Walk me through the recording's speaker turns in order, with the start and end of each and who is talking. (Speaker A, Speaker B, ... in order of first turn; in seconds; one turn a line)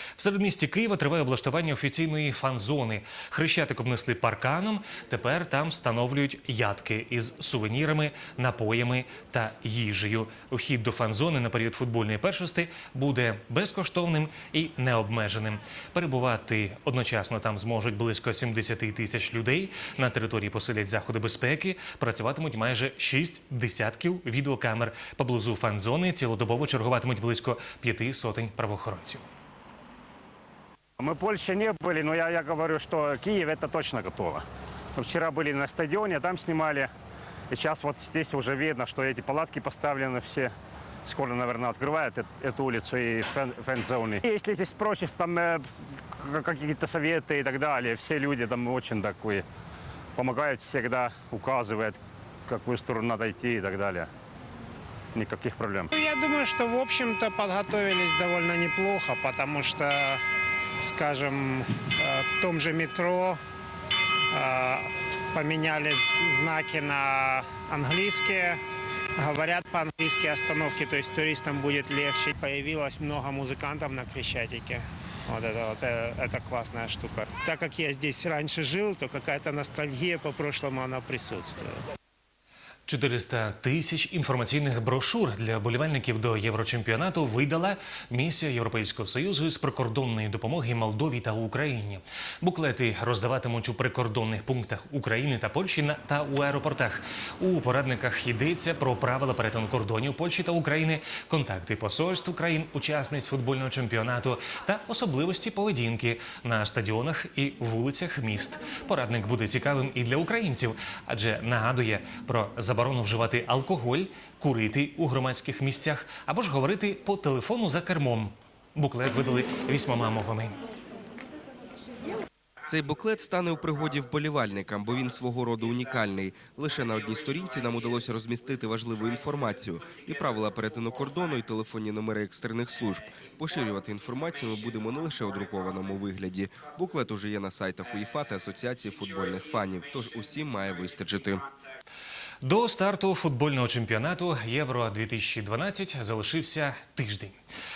Speaker A: 0.1-29.2
Speaker B: 31.0-34.4
Speaker B: 35.0-36.9
Speaker B: 37.5-40.5
Speaker B: 41.0-49.4
Speaker B: 50.1-54.1
Speaker B: 55.1-55.9
Speaker C: 55.9-60.2
Speaker C: 60.8-63.4
Speaker C: 64.3-68.6
Speaker C: 69.2-81.8
Speaker A: 82.9-120.6
Speaker D: 122.7-141.4
Speaker A: 142.4-147.4